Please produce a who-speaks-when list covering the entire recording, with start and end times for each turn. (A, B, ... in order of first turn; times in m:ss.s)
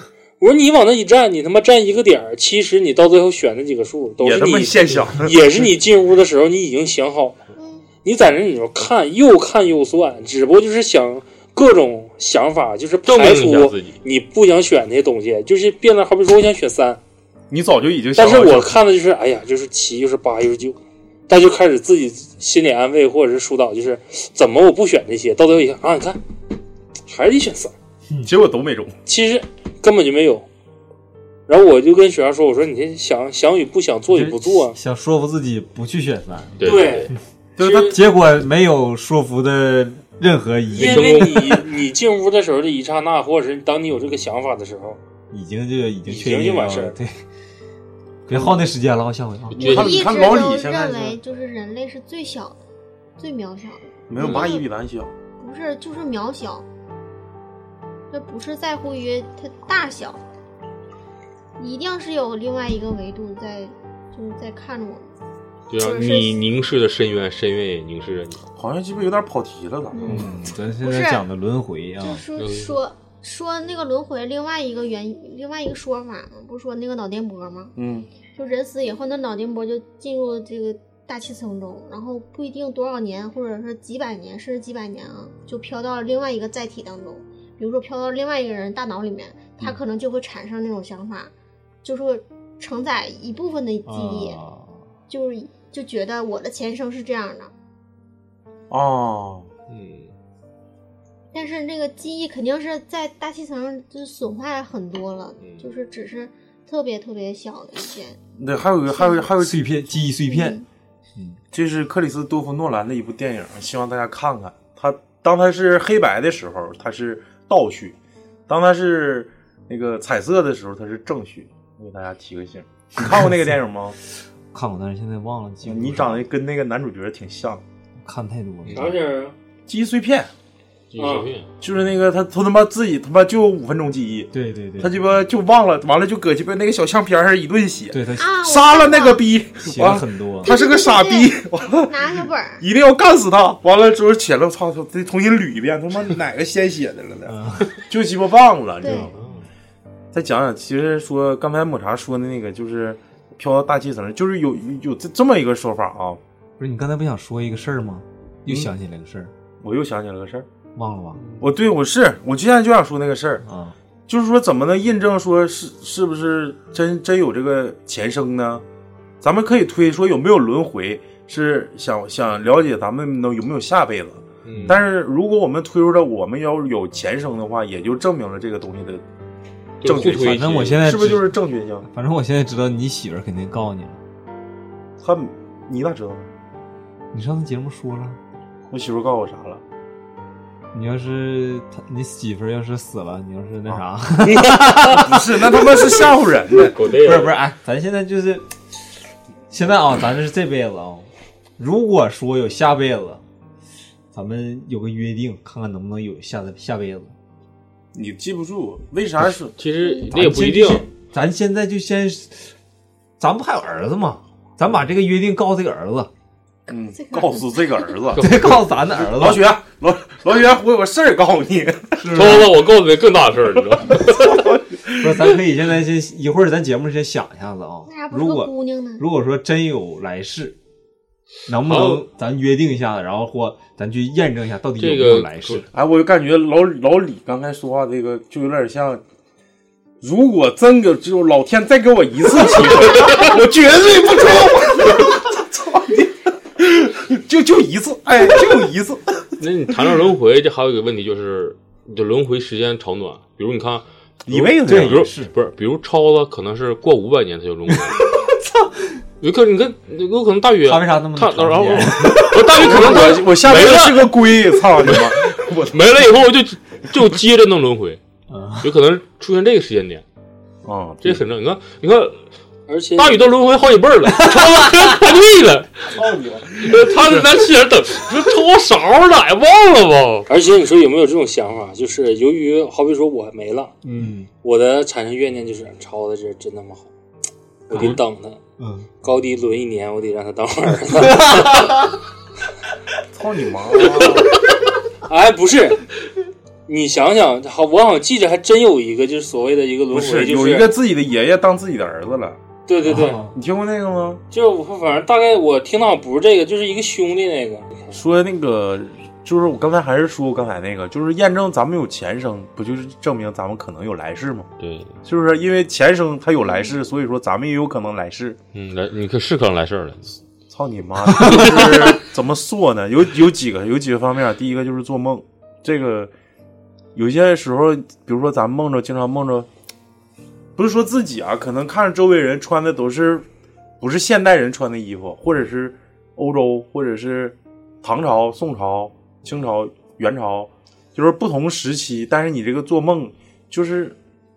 0:00.4-0:07.4 A
0:04.2-0:05.4 B
0:07.6-0:07.8 C
0:08.0-0:17.0 A
0:13.1-0:14.0 D
0:17.5-0:18.8 B
0:18.1-0:26.2 A
0:27.1-0:27.7 A
0:28.2-0:28.9 B
0:29.0-0:30.5 A
0:31.5-0:34.8 A
0:34.1-0:37.2 E
0:36.6-0:37.1 D
0:36.6-0:38.0 A
0:37.6-0:38.0 B
0:37.8-0:41.2 E
0:40.7-0:41.7 D
0:40.7-0:45.0 A
0:45.3-0:47.2 E
0:46.0-0:47.0 A
0:48.3-0:49.8 E
0:49.5-0:50.0 D
0:49.5-0:51.1 B
0:49.6-0:52.6 C
0:53.2-0:54.6 C
0:54.1-0:55.1 B
0:54.2-0:54.5 D
0:55.4-0:56.6 C
0:58.1-1:00.2 C
1:01.6-1:05.1 C
1:05.7-1:08.4 D
1:05.7-1:06.4 C
1:08.6-1:10.3 B
1:09.9-1:10.2 C
1:10.0-1:12.2 E
1:10.8-1:11.2 C
1:12.0-1:17.7 C
1:12.4-1:12.7 D
1:17.8-1:18.1 B
1:18.3-1:31.3 C
1:31.8-1:34.4 C
1:33.8-1:34.8 E
1:35.1-1:37.5 C
1:38.7-1:39.5 B
1:39.7-1:40.1 D
1:41.3-1:48.2 C
1:45.4-1:45.7 D
1:48.4-1:49.6 B
1:48.9-1:49.3 C
1:49.4-1:50.6 E
1:50.2-1:50.6 C
1:51.5-1:58.0 B
1:58.5-2:04.0 B
2:04.5-2:06.2 E
2:05.6-2:07.6 B
2:08.0-2:09.0 E
2:08.6-2:08.9 D
2:08.7-2:09.3 A
2:09.7-2:10.3 B
2:10.9-2:11.5 D
2:11.0-2:11.3 A
2:11.6-2:29.2 B
2:14.3-2:15.0 E
2:17.9-2:18.3 E
2:18.2-2:19.2 C
2:19.6-2:20.5 E
2:20.4-2:21.3 C
2:21.9-2:22.6 C
2:27.3-2:27.8 E
2:28.8-2:29.1 C
2:30.1-2:36.2 B
2:36.6-2:39.3 E
2:39.6-2:40.4 B
2:40.7-2:41.2 E
2:41.4-2:43.4 B
2:43.4-2:43.7 E
2:44.1-2:48.6 B
2:49.2-2:59.0 B
2:54.4-2:54.8 D
2:54.5-2:54.8 E
2:59.8-3:00.9 D
2:59.8-3:01.9 B
3:00.0-3:04.0 E
3:05.0-3:06.3 B
3:07.1-3:08.2 E
3:08.7-3:09.6 B
3:10.7-3:15.9 E
3:14.2-3:15.0 A
3:15.0-3:16.7 B
3:16.6-3:17.4 D
3:16.9-3:18.4 E
3:19.5-3:23.2 E
3:24.1-3:27.1 E
3:27.9-3:29.5 B
3:29.6-3:30.9 D
3:30.1-3:32.5 E
3:33.2-3:36.1 E
3:36.7-3:38.3 B
3:37.0-3:37.9 C
3:38.1-3:39.4 E
3:38.2-3:38.6 D
3:39.0-3:42.5 B
3:42.0-3:42.5 E
3:42.1-3:44.5 D
3:44.3-3:45.1 B
3:45.0-3:50.6 E
3:47.8-3:49.0 C
3:51.5-3:55.7 E
3:51.6-3:52.0 D
3:54.8-3:55.6 D
3:55.7-3:59.0 B
4:00.0-4:09.3 B
4:09.4-4:18.2 D
4:14.3-4:15.0 B
4:14.4-4:15.3 E
4:17.8-4:18.7 E
4:19.2-4:28.0 D
4:20.6-4:22.7 E
4:22.5-4:25.9 B
4:28.3-4:28.7 E
4:28.6-4:30.0 D
4:30.6-4:31.2 B
4:31.0-4:32.3 D
4:32.7-4:33.4 A
4:33.0-4:35.9 D
4:34.2-4:34.9 E
4:35.9-4:37.1 B
4:36.6-4:40.3 D
4:40.3-4:43.8 A
4:43.9-4:44.3 E
4:44.4-4:46.9 A
4:47.7-4:48.4 A
4:47.7-4:48.0 D
4:48.6-4:48.9 E
4:49.0-4:51.9 A
4:50.9-4:51.9 E
4:53.1-4:54.2 B
4:53.8-4:54.4 A
4:55.0-4:55.9 A
4:56.6-5:00.7 A
4:59.9-5:02.4 B
5:02.7-5:03.2 A
5:02.8-5:03.3 E
5:03.3-5:04.2 B
5:04.3-5:08.0 A
5:07.9-5:14.5 B
5:14.6-5:15.0 D
5:15.0-5:18.4 B
5:18.5-5:20.1 D
5:20.5-5:26.1 B
5:21.1-5:21.6 E
5:26.9-5:29.5 B
5:30.6-5:33.2 B
5:33.8-5:44.0 B